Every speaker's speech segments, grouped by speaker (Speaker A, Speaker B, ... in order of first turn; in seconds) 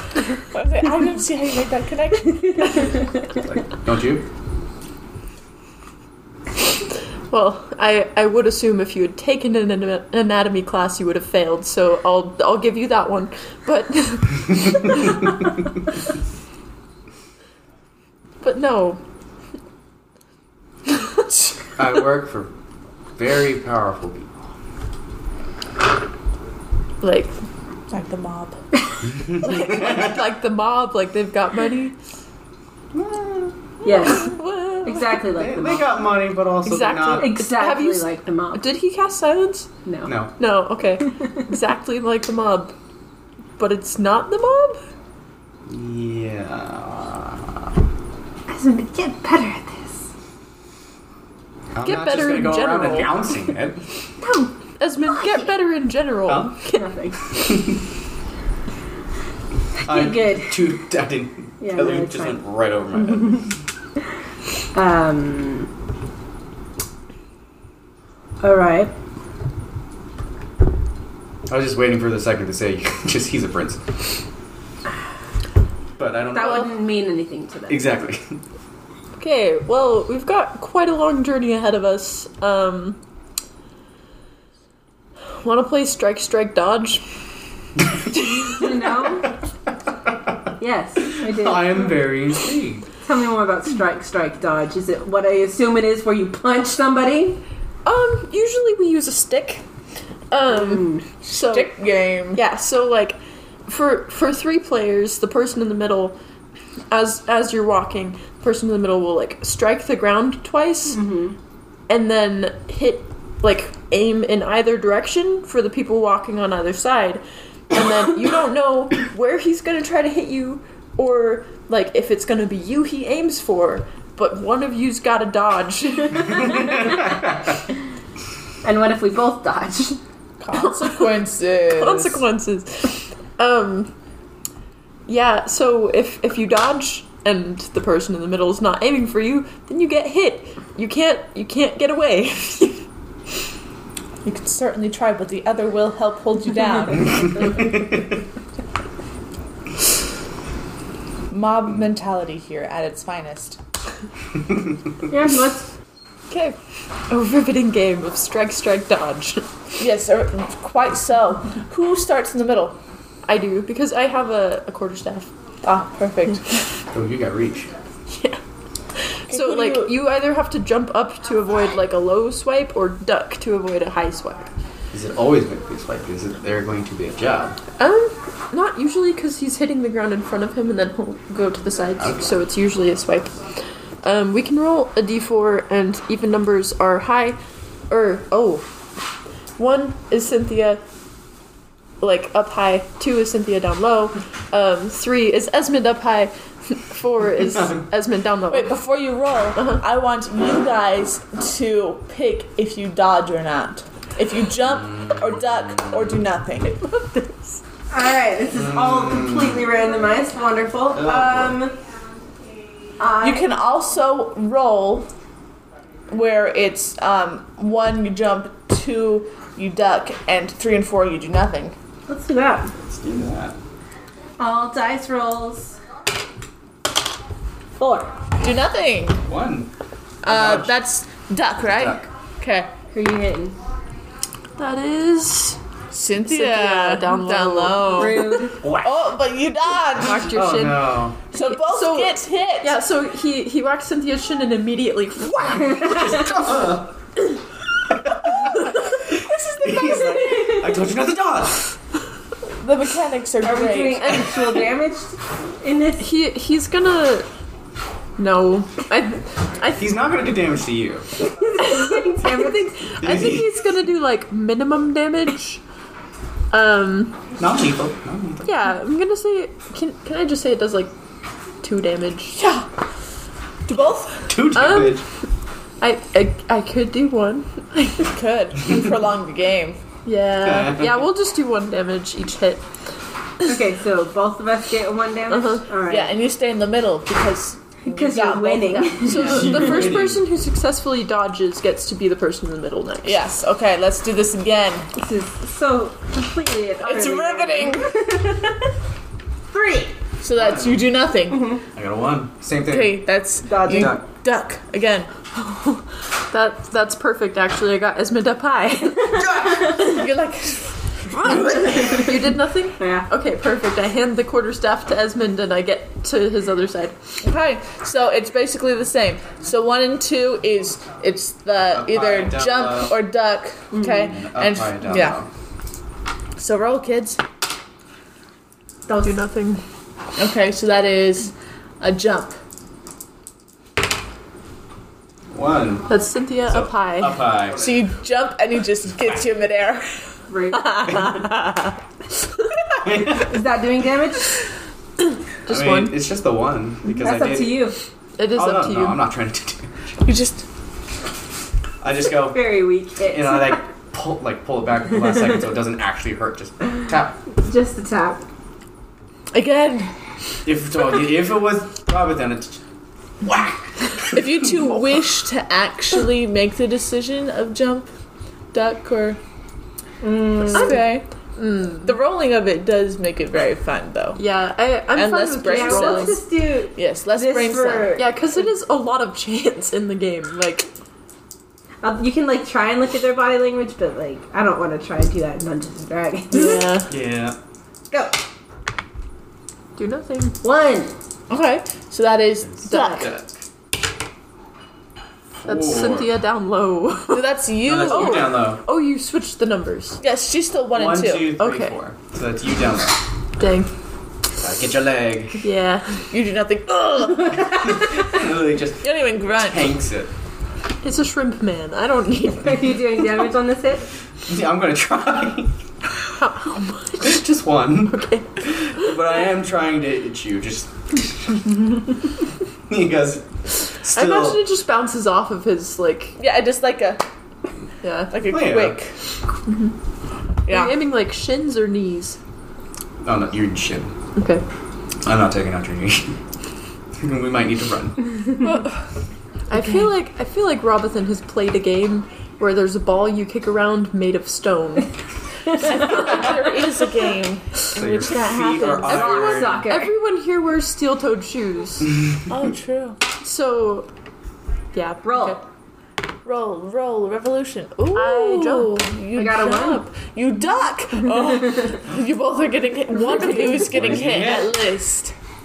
Speaker A: 0.5-2.9, 27.9-28.6, 101.3-102.4, 130.4-132.2, 144.2-147.5, 151.3-153.6, 159.8-162.8, 165.6-166.6, 169.3-170.0, 198.5-206.8, 213.2-215.1, 216.1-221.8, 228.4-229.2, 230.2-232.7, 235.9-240.3, 241.3-242.8, 249.1-250.5, 252.6-254.2, 272.4-272.7, 273.6-274.4, 278.0-279.8, 285.9-289.6, 293.0-294.9, 296.8-298.2, 300.2-301.5, 302.7-305.1, 309.6-311.7, 317.2-325.2, 326.4-327.2, 330.1-332.4, 337.6-340.0, 350.0-350.4, 359.3-359.9, 364.1-367.9, 368.5-369.2, 370.4-371.1, 371.8-374.2, 374.9-376.2, 376.7-378.0, 391.3-393.1, 397.1-398.4, 400.0-401.4, 406.1-407.5, 408.8-409.7, 426.2-427.0, 428.1-428.9, 430.4-430.8, 438.4-438.8, 439.6-439.8, 445.6-449.2, 452.3-453.0, 456.2-465.1
Speaker B: 3.3-4.2, 21.8-22.5, 23.1-24.3, 29.1-30.2, 32.9-33.5, 35.4-37.4, 40.0-40.3, 45.7-47.6, 51.7-53.9, 56.3-56.6, 57.4-57.8, 59.8-63.5, 71.5-73.9, 76.0-76.8, 77.7-78.4, 91.2-92.9, 166.9-167.7, 174.9-177.6, 182.0-182.3, 208.5-209.6, 210.9-211.6, 222.8-223.6, 229.2-229.7, 230.2-230.7, 231.6-232.1, 238.6-238.9, 240.2-241.2, 245.7-246.9, 248.0-251.7, 259.8-261.1, 263.0-263.6, 267.4-268.4, 274.3-275.0, 280.5-280.9, 289.2-290.2, 300.3-300.8, 301.7-303.0, 303.6-304.0, 309.4-309.6, 311.2-312.0, 321.7-323.0, 323.9-325.3, 335.3-335.9, 336.4-337.7, 342.8-343.4, 345.5-347.7, 348.3-350.0, 351.8-357.2, 360.4-362.6, 363.2-364.2, 386.9-387.4, 392.7-393.4, 395.4-396.1, 397.6-398.6, 400.7-403.0, 404.4-405.4, 407.4-410.1, 414.2-415.6, 417.0-421.6, 422.7-424.4, 428.2-428.8, 433.0-433.9, 435.0-436.2, 437.0-438.2, 447.7-449.7, 463.6-464.6
Speaker C: 7.3-15.2, 18.4-19.0, 27.0-27.3, 29.4-31.9, 34.0-35.2, 36.6-39.7, 40.4-42.7, 43.6-44.8, 51.8-53.1, 54.8-56.9, 79.2-83.0, 85.4-87.0, 97.8-99.6, 100.3-101.7, 102.3-106.2, 106.9-111.0, 111.9-126.8, 131.7-133.9, 135.1-142.8, 156.3-156.6, 157.1-159.5, 163.2-165.3, 168.1-168.4, 169.1-174.5, 177.8-183.5, 184.0-187.4, 187.9-188.7, 189.6-190.8, 192.0-198.8, 199.6-199.8, 206.9-207.6, 234.6-235.6, 236.2-238.4, 239.9-246.0, 256.0-257.3, 258.2-259.9, 261.6-265.6, 266.5-267.2, 268.4-270.9, 271.6-272.4, 274.5-275.0, 275.8-278.1, 280.0-282.6, 285.3-285.6, 288.9-293.3, 305.4-309.3, 311.5-317.0, 329.0-329.6, 335.9-337.3, 340.6-341.7, 345.4-346.0, 348.2-349.0, 371.4-371.9, 374.1-376.2, 377.9-380.7, 386.3-386.9, 389.8-390.4, 392.7-393.1, 395.5-397.3, 397.9-400.0, 401.4-401.8, 403.4-403.7, 405.4-406.1, 410.8-412.7, 416.1-417.2, 417.9-418.9, 423.9-426.2, 427.8-428.1, 429.5-429.7, 430.5-432.2, 434.1-434.4, 439.5-444.9, 448.8-451.9, 453.2-453.9, 454.7-455.4, 457.9-458.8
Speaker D: 33.8-36.0, 37.1-38.6, 39.8-40.1, 48.5-50.1, 54.2-54.5, 56.7-57.5, 59.8-60.8, 61.6-62.4, 62.9-63.5, 64.7-65.7, 68.4-68.9, 76.3-77.9, 88.5-89.3, 90.6-92.0, 93.0-97.4, 100.5-101.0, 110.9-111.3, 128.6-130.0, 155.1-155.7, 207.9-211.8, 213.0-213.4, 222.1-222.7, 224.4-225.8, 227.8-228.1, 232.9-233.6, 237.9-238.6, 253.4-256.0, 261.3-262.8, 283.4-286.1, 287.9-289.5, 294.9-298.7, 299.5-299.9, 301.3-301.6, 303.4-304.0, 311.6-312.1, 312.8-313.1, 323.7-324.1, 340.3-341.1, 343.1-344.3, 346.9-347.8, 352.1-353.6, 357.4-358.2, 370.0-370.8, 375.4-378.2, 381.8-386.7, 387.9-388.2, 390.4-390.9, 392.7-393.0, 412.4-413.9, 448.8-449.9, 455.0-455.4, 459.1-459.9